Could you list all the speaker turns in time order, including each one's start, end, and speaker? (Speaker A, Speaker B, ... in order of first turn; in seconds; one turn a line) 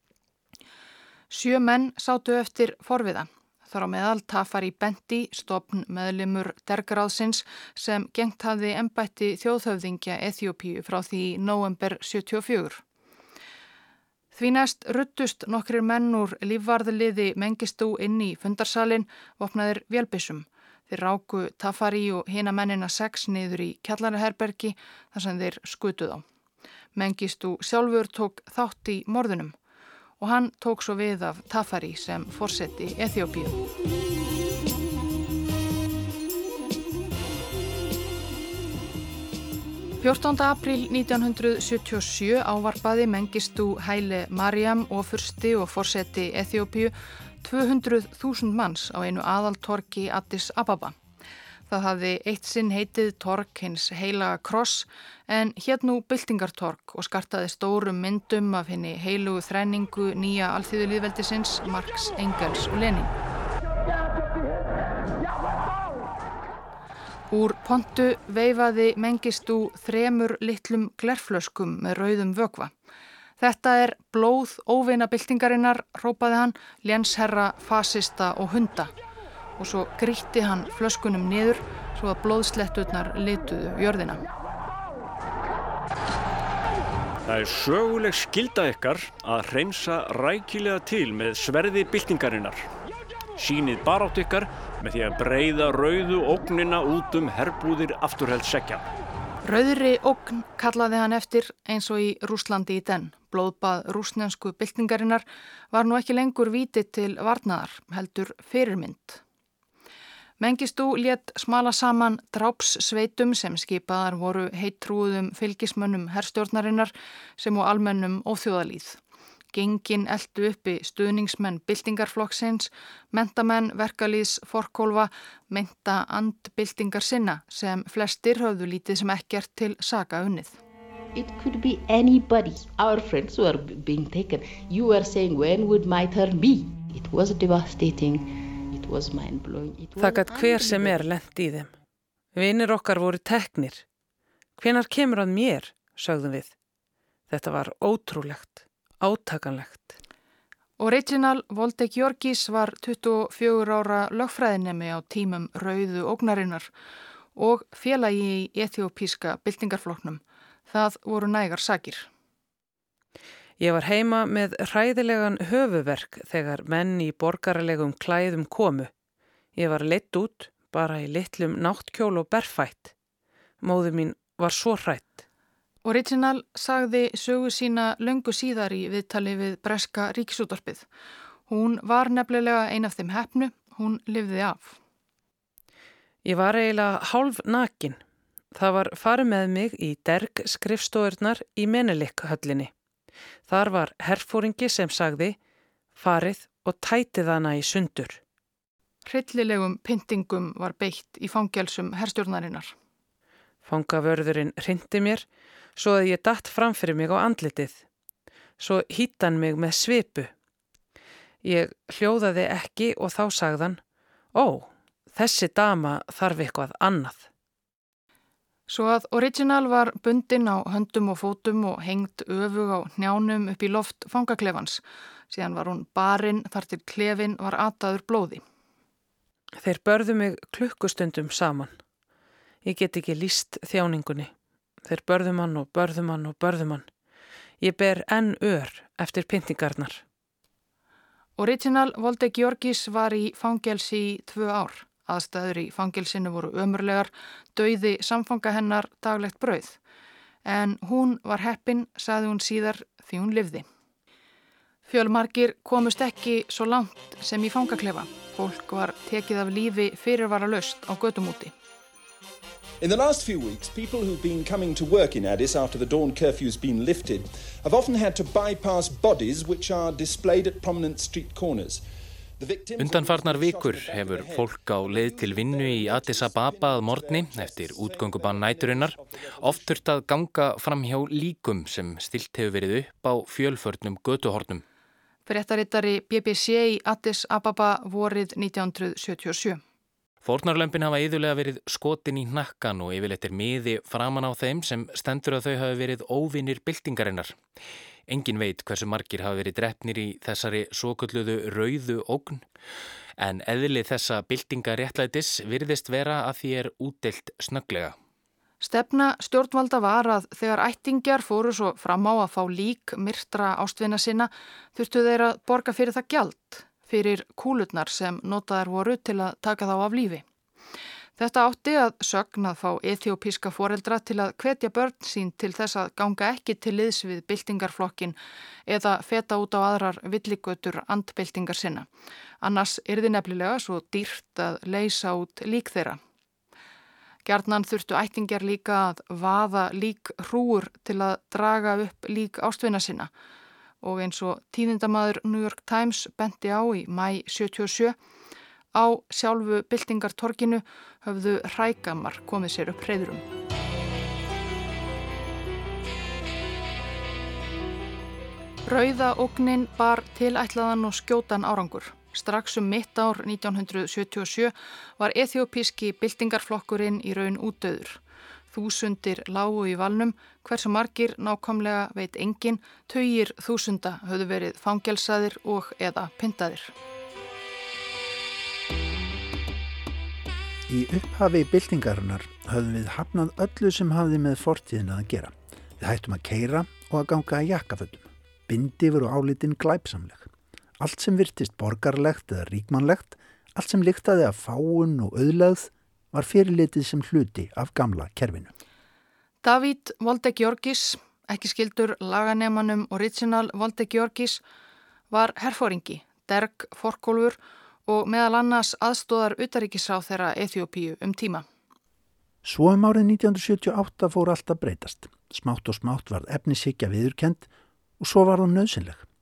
Speaker A: 1.3-12.8
Speaker A: 14.3-26.2
Speaker A: 26.9-29.6
Speaker A: 30.2-33.6
Speaker A: 40.0-51.0
Speaker A: 51.7-63.1
Speaker A: 67.3-72.7
Speaker A: 73.4-78.9
Speaker A: 79.6-84.2
Speaker B: 87.3-92.7
Speaker B: 93.4-98.9
Speaker A: 99.5-109.2
Speaker A: 110.4-119.0
Speaker A: 119.5-130.6
Speaker C: 131.2-141.1
Speaker D: 140.0-141.7
Speaker D: 142.3-143.8
Speaker D: 144.6-146.5
Speaker D: 147.3-149.9
Speaker A: 150.8-156.7
Speaker A: 157.4-162.1
Speaker D: 163.6-168.9
Speaker D: 169.6-172.9
Speaker D: 173.6-175.2
Speaker A: 175.8-180.9
Speaker A: 181.5-184.8
Speaker D: 186.2-188.0
Speaker D: 188.5-192.7
Speaker D: 193.5-195.4
Speaker D: 195.9-198.2
Speaker A: 199.1-202.7
Speaker D: 203.6-207.8
Speaker D: 208.6-210.3
Speaker D: 211.4-213.8
Speaker D: 214.3-217.3
Speaker A: 218.7-228.4
Speaker D: 229.6-231.8
Speaker D: 232.6-234.3
Speaker D: 234.8-236.9
Speaker D: 237.6-240.0
Speaker A: 241.4-249.8
Speaker A: 250.4-253.7
Speaker A: 254.9-261.5
Speaker E: 262.8-271.8
Speaker E: 272.4-279.9
Speaker F: 272.8-284.6
Speaker A: 285.3-289.6
Speaker F: 290.2-297.4
Speaker F: 298.1-302.4
Speaker F: 303.2-307.9
Speaker A: 308.6-320.2
Speaker A: 321.2-328.2
Speaker A: 328.7-331.9
Speaker A: 332.4-336.0
Speaker A: 337.2-343.1
Speaker A: 343.8-348.0
Speaker A: 348.8-353.2
Speaker A: 358.7-368.0
Speaker A: 368.5-376.7
Speaker G: 380.7-398.5
Speaker A: 399.4-404.4
Speaker A: 405.1-411.4
Speaker G: 412.4-417.5
Speaker G: 418.0-419.1